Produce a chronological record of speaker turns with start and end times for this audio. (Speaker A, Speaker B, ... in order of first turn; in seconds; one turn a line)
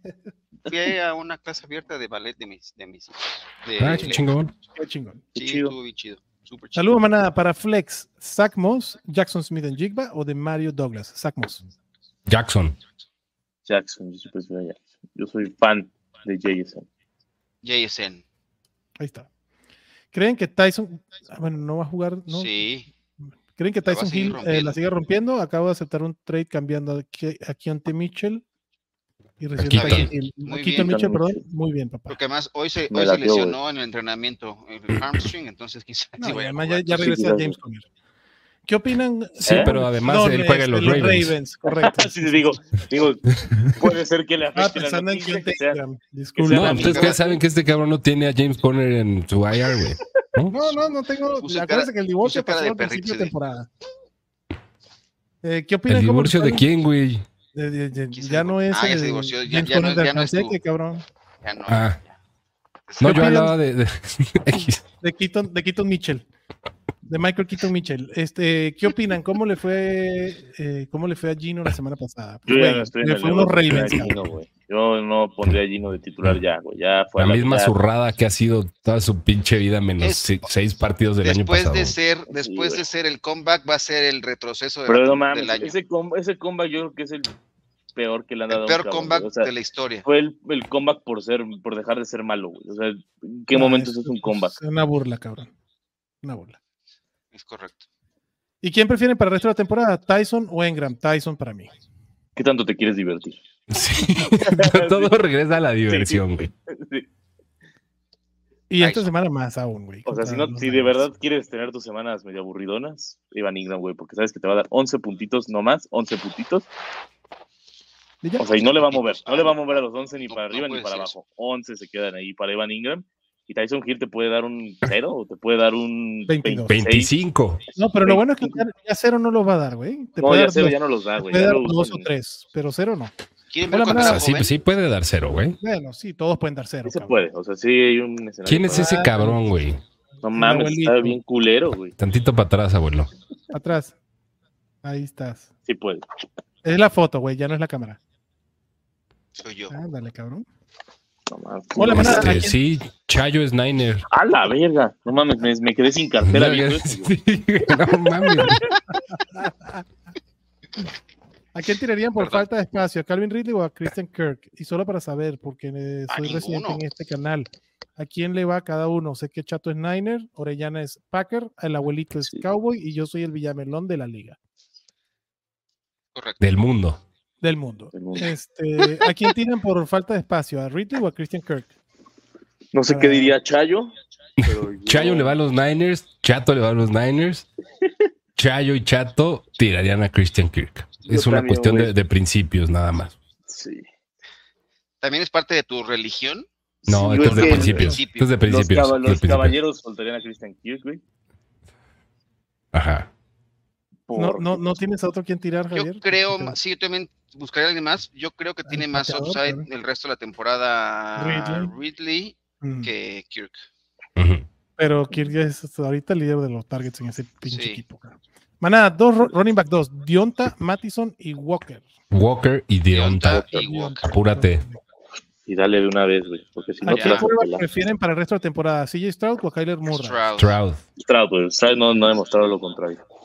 Speaker A: 0.7-4.2
Speaker B: 3.8-4.5
Speaker C: 4.8-5.2
Speaker D: 5.3-5.8
Speaker A: 5.4-6.9
Speaker C: 6.8-11.6
Speaker B: 12.3-12.8
Speaker D: 13.7-16.9
Speaker A: 17.6-18.2
Speaker C: 19.0-19.3
Speaker C: 20.1-22.5
Speaker A: 22.3-22.9
Speaker C: 23.6-28.4
Speaker A: 23.9-24.8
Speaker C: 29.4-32.2
Speaker B: 29.6-30.1
Speaker A: 29.7-31.0
Speaker D: 30.7-31.4
Speaker A: 32.1-37.1
Speaker D: 32.9-33.6
Speaker C: 36.2-37.9
Speaker D: 37.0-37.6
Speaker C: 38.7-42.6
Speaker B: 39.5-41.3
Speaker D: 39.5-39.7
Speaker D: 41.6-45.8
Speaker C: 44.6-47.1
Speaker D: 46.4-47.3
Speaker B: 46.5-50.7
Speaker A: 46.7-47.3
Speaker C: 50.5-53.7
Speaker A: 51.4-53.3
Speaker C: 55.4-56.7
Speaker B: 55.9-57.3
Speaker C: 57.5-61.0
Speaker A: 58.1-60.6
Speaker A: 61.4-62.1
Speaker B: 61.7-62.0
Speaker A: 62.9-63.3
Speaker C: 63.0-63.5
Speaker B: 63.0-64.8
Speaker C: 65.0-66.2
Speaker C: 67.1-74.1
Speaker D: 72.5-77.8
Speaker B: 77.2-82.0
Speaker A: 80.0-80.5
Speaker A: 81.2-85.8
Speaker D: 82.3-82.8
Speaker D: 84.9-87.3
Speaker D: 88.0-89.5
Speaker A: 88.5-90.1
Speaker D: 90.0-94.6
Speaker C: 93.5-95.5
Speaker C: 96.2-96.6
Speaker A: 97.3-97.9
Speaker C: 98.6-101.7
Speaker D: 102.4-103.4
Speaker B: 103.7-106.5
Speaker D: 104.4-105.1
Speaker D: 105.9-107.1
Speaker C: 108.7-111.1
Speaker A: 108.8-109.1
Speaker D: 110.1-116.7
Speaker C: 118.2-118.5
Speaker D: 118.4-127.1
Speaker A: 118.5-121.1
Speaker C: 126.3-126.8
Speaker B: 126.7-127.6
Speaker C: 127.8-133.1
Speaker D: 128.0-128.6
Speaker D: 130.2-132.1
Speaker A: 133.5-134.5
Speaker C: 133.7-134.3
Speaker B: 133.9-135.6
Speaker C: 135.6-137.2
Speaker D: 136.9-139.2
Speaker B: 138.5-139.8
Speaker C: 138.7-139.4
Speaker D: 140.2-141.9
Speaker C: 140.3-141.2
Speaker B: 142.0-143.1
Speaker C: 143.5-143.9
Speaker C: 144.8-145.5
Speaker D: 145.7-146.1
Speaker C: 146.6-148.0
Speaker A: 149.4-149.8
Speaker C: 149.7-150.5
Speaker D: 151.3-152.4
Speaker C: 151.8-152.6
Speaker B: 151.8-154.1
Speaker D: 154.1-157.1
Speaker B: 156.2-158.7
Speaker D: 158.3-158.7
Speaker C: 159.3-159.8
Speaker C: 161.5-174.4
Speaker A: 162.2-162.4
Speaker A: 166.1-166.8
Speaker A: 176.2-176.4
Speaker B: 176.4-177.0
Speaker C: 177.4-181.7
Speaker D: 177.9-178.3
Speaker D: 182.7-185.4
Speaker C: 182.9-183.4
Speaker B: 184.4-187.5
Speaker B: 188.4-193.2
Speaker D: 191.1-191.9
Speaker D: 193.5-193.8
Speaker A: 195.0-196.5
Speaker D: 196.8-201.0
Speaker B: 196.9-199.6
Speaker A: 197.1-198.4
Speaker B: 202.7-203.1
Speaker D: 204.1-204.8
Speaker C: 204.1-206.6
Speaker A: 205.7-213.7
Speaker C: 208.7-209.7
Speaker C: 211.2-211.7
Speaker C: 212.6-212.9
Speaker B: 214.2-214.5
Speaker C: 214.8-221.8
Speaker A: 217.5-217.8
Speaker B: 222.1-223.4
Speaker A: 222.9-224.1
Speaker C: 223.5-224.8
Speaker B: 224.0-224.6
Speaker D: 225.5-227.6
Speaker C: 226.8-230.2
Speaker A: 226.9-227.2
Speaker A: 229.9-230.6
Speaker B: 230.4-230.8
Speaker D: 231.0-233.0